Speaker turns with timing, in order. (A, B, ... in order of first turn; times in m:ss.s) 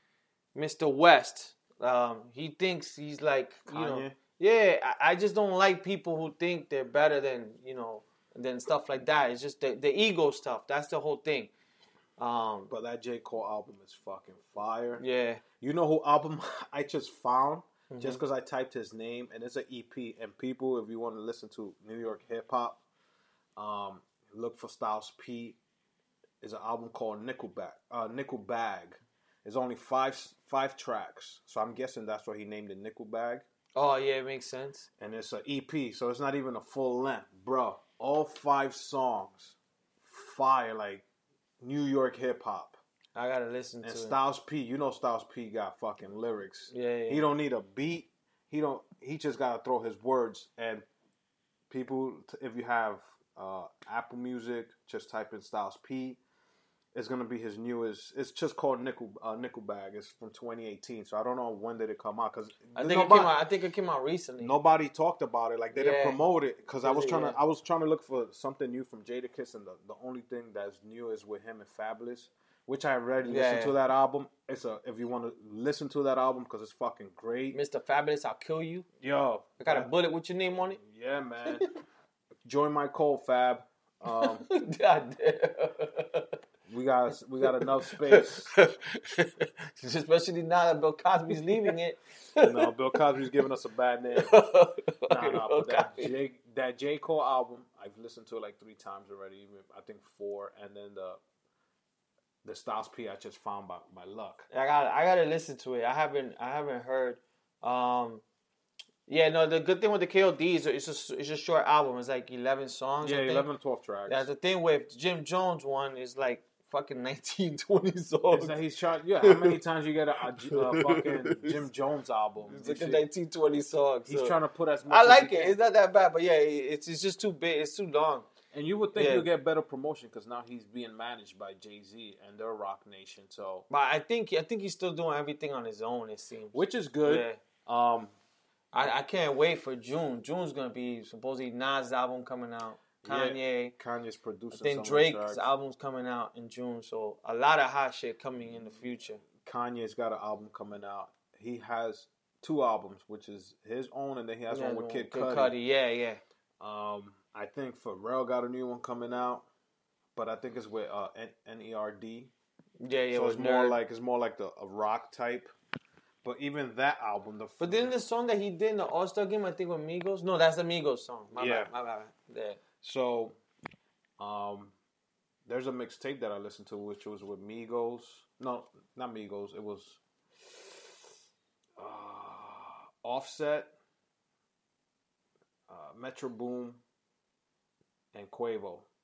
0:00.6-0:11.5 A
0:03.7-0:04.2 B
0:12.2-0:12.7 A
0:12.7-0:15.0 B
0:15.0-0:15.4 A
0:15.6-0:22.8 B
0:17.9-0:18.2 A
0:23.6-0:25.6 B
0:26.4-0:33.4 B
0:33.8-0:34.9 A
0:35.0-0:41.0 B
0:41.6-0:42.8 B
0:43.2-0:44.2 A
0:43.8-0:50.9 B
0:46.7-0:47.2 A
0:51.7-0:56.2 B
0:56.9-1:03.3 B
1:02.8-1:04.5 A
1:04.4-1:17.6 B
1:05.7-1:06.2 A
1:06.8-1:07.4 A
1:13.3-1:13.8 A
1:17.5-1:18.9 A
1:19.0-1:19.9 B
1:19.6-1:20.8 A
1:20.6-1:21.7 B
1:22.4-1:24.4 B
1:24.1-1:26.3 A
1:26.7-1:28.5 B
1:27.4-1:32.7 A
1:32.4-1:34.4 B
1:34.2-1:36.1 A
1:35.1-1:41.2 B
1:42.4-1:44.5 B
1:44.5-1:48.2 A
1:49.1-1:53.5 A
1:53.0-1:54.3 B
1:54.1-1:58.6 A
1:58.3-2:03.0 B
1:59.2-1:59.6 A
2:00.5-2:01.6 A
2:02.4-2:04.4 A
2:04.1-2:05.6 B
2:04.9-2:08.3 A
2:08.5-2:13.6 B
2:08.9-2:09.3 A
2:13.7-2:17.4 A
2:16.5-2:18.1 B
2:18.7-2:23.7 A
2:23.0-2:25.5 B
2:24.5-2:29.2 A
2:29.2-2:35.6 B
2:34.5-2:36.2 A
2:36.6-2:39.5 B
2:40.2-2:42.3 B
2:42.8-2:43.8 A
2:43.1-2:45.5 B
2:46.2-2:47.9 B
2:47.6-2:52.6 A
2:51.3-2:51.7 B
2:52.8-2:53.4 B
2:54.2-2:54.7 B
2:55.5-3:00.9 B
3:01.8-3:03.7 B
3:05.7-3:06.8 B
3:08.1-3:08.9 B